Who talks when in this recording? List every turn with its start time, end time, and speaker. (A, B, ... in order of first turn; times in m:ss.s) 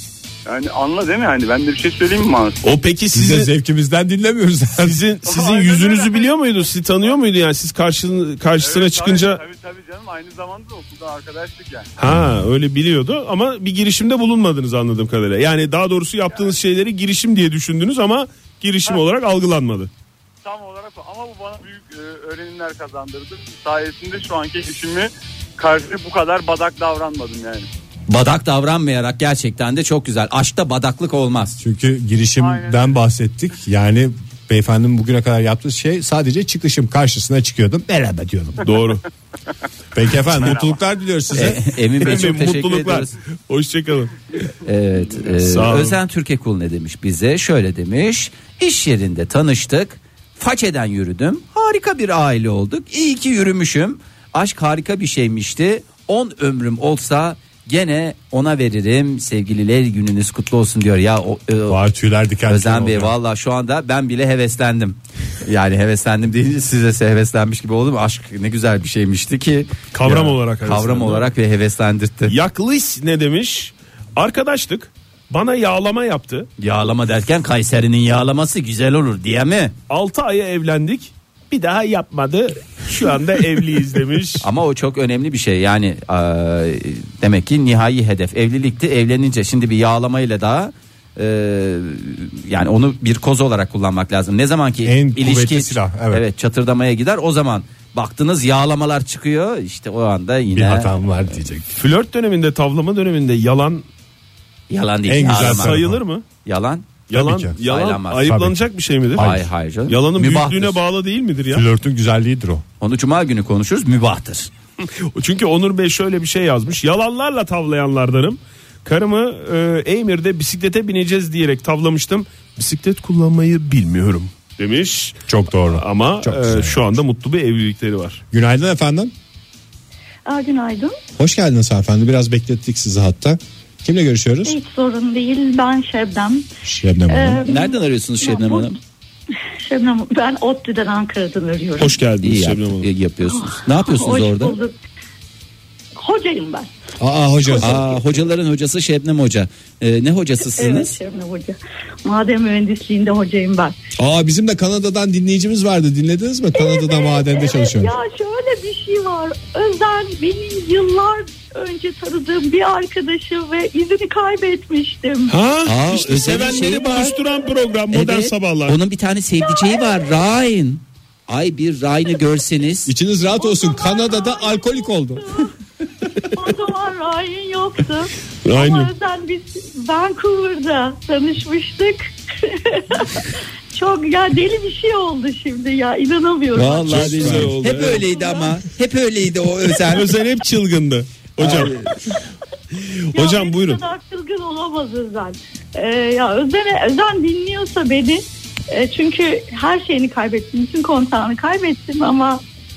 0:00.4-0:02.6 A
0:02.6-0:03.5 B
0:03.1-0:05.0 C
0:04.8-0:09.4 B
0:05.2-0:07.1 A
0:08.6-0:11.9 A
0:12.0-0:19.9 B
0:20.4-0:27.7 A
0:28.1-0:31.6 D
0:31.6-0:38.6 C
0:32.4-0:32.9 A
0:38.6-0:39.0 B
0:39.9-0:41.6 C
0:40.3-0:40.7 B
0:40.4-0:40.7 A
0:41.3-0:43.1 D
0:42.0-0:44.2 B
0:44.6-1:01.8 D
0:45.4-0:46.0 B
1:01.7-1:03.1 C
1:02.5-1:12.3 D
1:09.9-1:11.3 B
1:12.3-1:16.5 B
1:16.6-1:19.7 D
1:19.9-1:24.4 B
1:24.4-1:40.9 D
1:34.8-1:36.2 C
1:40.5-1:41.7 C
1:41.8-1:43.8 B
1:44.7-1:45.8 D
1:45.0-1:46.0 C
1:45.3-1:46.2 B
1:46.4-1:47.0 D
1:47.1-1:51.6 B
1:47.1-1:47.6 C
1:47.6-1:48.4 D
1:48.3-1:48.6 C
1:49.1-1:49.4 C
1:49.2-1:50.7 D
1:50.2-1:50.5 C
1:51.5-1:52.6 C
1:52.8-1:54.5 D
1:54.8-2:05.2 B
2:05.3-2:06.8 C
2:05.7-2:08.2 B
2:08.3-2:09.1 C
2:10.2-2:11.0 E
2:11.2-2:14.6 C
2:14.4-2:16.4 E
2:16.6-2:17.4 C
2:17.1-2:18.8 E
2:17.4-2:18.8 D
2:19.7-2:22.0 E
2:21.8-2:22.9 B
2:22.2-2:24.6 D
2:23.2-2:24.7 E
2:26.0-2:26.7 E
2:27.0-2:27.8 C
2:27.4-2:28.0 E
2:27.6-2:31.0 D
2:30.4-2:33.8 E
2:34.0-2:37.9 C
2:36.5-2:45.4 E
2:45.3-2:48.8 B
2:45.6-2:47.1 D
2:47.9-2:52.9 D
2:49.4-2:50.2 E
2:52.9-2:55.2 C
2:53.3-2:55.5 E
2:56.3-3:03.2 E
2:58.4-2:58.9 B
3:03.7-3:07.1 E
3:06.7-3:10.1 D
3:06.7-3:07.6 C
3:06.7-3:08.1 B
3:08.0-3:08.6 E
3:09.9-3:11.9 B
3:11.4-3:11.7 D
3:12.9-3:13.8 B
3:13.1-3:22.4 E